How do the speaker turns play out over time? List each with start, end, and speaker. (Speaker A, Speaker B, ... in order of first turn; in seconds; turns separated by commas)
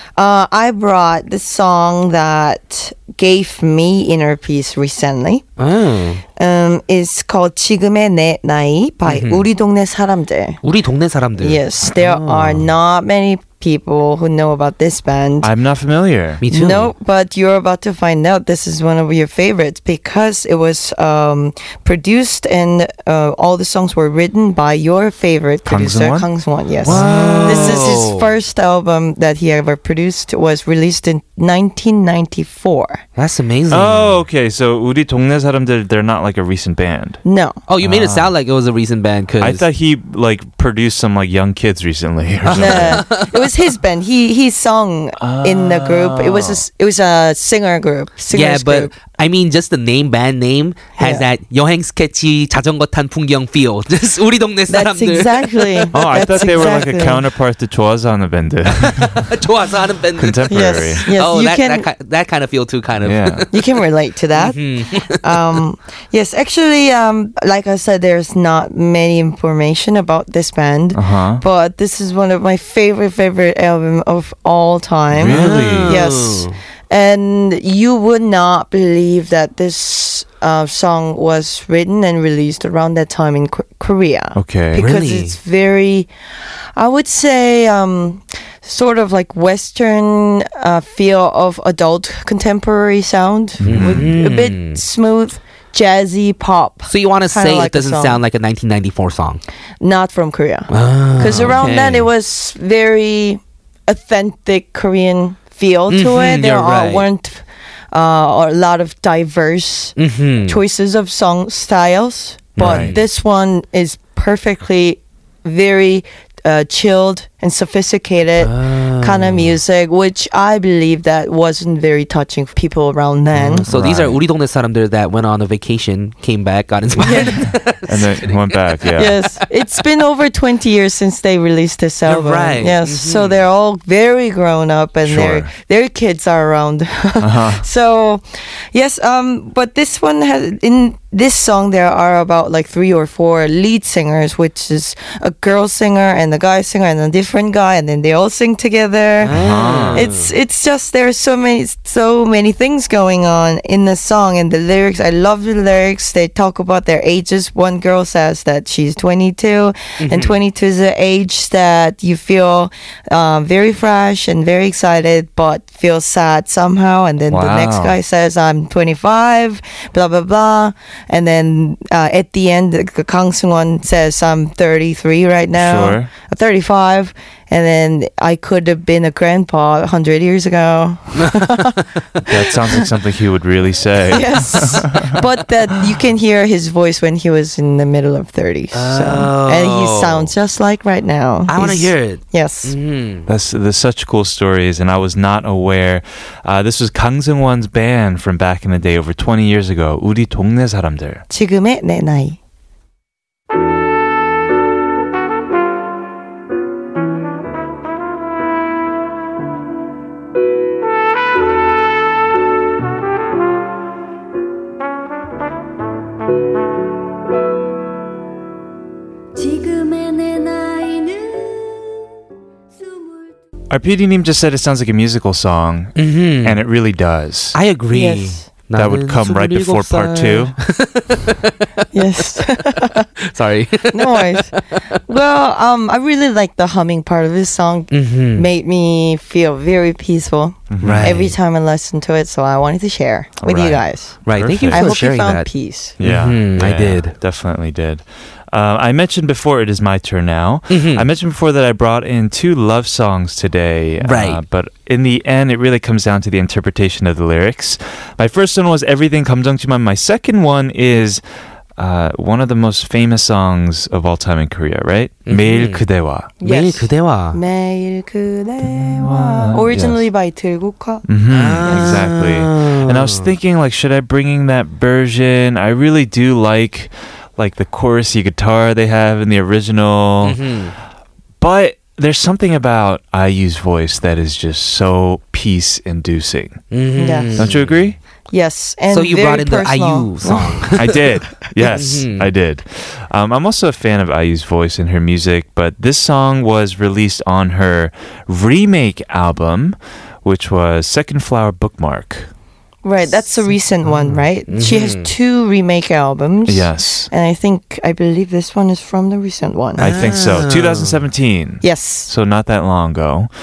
Speaker A: 0.2-5.5, Speaker B: 5.6-6.2, Speaker A: 6.4-10.6, Speaker B: 9.1-9.5, Speaker B: 10.6-11.6, Speaker A: 11.4-15.5, Speaker C: 11.9-12.6, Speaker C: 15.4-16.4, Speaker B: 16.4-16.9, Speaker A: 16.5-33.0, Speaker C: 25.7-26.3, Speaker C: 26.8-27.9, Speaker B: 26.9-28.3, Speaker B: 33.2-34.2, Speaker C: 33.7-37.2, Speaker A: 37.2-37.6, Speaker B: 37.7-39.6, Speaker C: 37.8-38.3, Speaker C: 39.4-43.0, Speaker B: 42.5-43.5, Speaker A: 42.5-48.9, Speaker C: 45.2-46.6, Speaker B: 48.3-55.9, Speaker A: 51.0-51.2, Speaker A: 54.7-57.2, Speaker C: 55.9-59.4, Speaker B: 58.8-63.6, Speaker C: 60.2-61.1, Speaker A: 60.5-61.9, Speaker C: 63.0-63.5, Speaker A: 63.5-86.1, Speaker B: 64.3-65.4, Speaker C: 70.9-71.4, Speaker C: 75.1-76.0, Speaker B: 75.3-76.6, Speaker C: 84.3-84.8, Speaker B: 84.8-85.4, Speaker A: 86.8-98.2, Speaker C: 93.6-94.2, Speaker B: 93.6-94.8, Speaker B: 96.9-99.4, Speaker A: 99.8-110.0, Speaker B: 100.7-102.1, Speaker C: 101.3-101.6, Speaker B: 105.9-107.1, Speaker B: 110.0-110.6, Speaker A: 110.5-123.7, Speaker B: 112.6-113.0, Speaker C: 112.6-113.0, Speaker B: 118.4-119.6, Speaker B: 123.4-129.0, Speaker C: 123.7-124.2, Speaker A: 127.0-127.4, Speaker C: 127.0-129.2, Speaker A: 129.0-149.3, Speaker B: 132.1-133.4, Speaker C: 135.1-135.5, Speaker C: 137.2-137.7, Speaker B: 149.2-150.3, Speaker C: 149.3-150.1, Speaker A: 149.9-182.8, Speaker B: 160.0-160.4, Speaker C: 167.3-168.0, Speaker C: 175.5-176.1, Speaker B: 181.2-181.8, Speaker C: 182.3-185.2, Speaker A: 184.1-192.8, Speaker B: 188.7-190.3, Speaker B: 191.5-193.3, Speaker C: 193.3-201.2, Speaker A: 201.3-202.4, Speaker D: 219.3-222.0, Speaker D: 222.7-223.3, Speaker C: 223.7-227.6, Speaker B: 226.0-226.6, Speaker B: 227.5-231.6, Speaker A: 227.9-228.5, Speaker C: 228.7-230.6, Speaker A: 231.9-233.1, Speaker B: 233.2-234.6, Speaker A: 233.9-245.9, Speaker B: 237.9-238.5, Speaker C: 240.7-241.3, Speaker B: 240.8-241.3, Speaker C: 243.4-244.9, Speaker B: 244.3-247.2, Speaker C: 246.0-261.2, Speaker B: 250.7-251.0, Speaker B: 254.0-254.4, Speaker C: 261.8-266.3, Speaker B: 265.3-265.8, Speaker A: 266.4-271.1, Speaker B: 266.4-267.4, Speaker C: 268.6-270.1, Speaker C: 271.1-280.4, Speaker B: 271.3-273.3, Speaker A: 271.6-272.0, Speaker B: 280.2-280.8, Speaker C: 281.4-286.6, Speaker B: 286.7-287.8, Speaker A: 287.0-287.4, Speaker C: 287.4-288.0, Speaker A: 288.3-290.7, Speaker B: 288.9-291.0, Speaker C: 290.8-302.3, Speaker B: 291.6-292.3, Speaker A: 302.8-309.9, Speaker C: 303.9-304.2, Speaker B: 304.5-305.1, Speaker C: 306.5-307.1, Speaker B: 309.8-311.0, Speaker C: 309.8-313.3, Speaker A: 311.6-312.1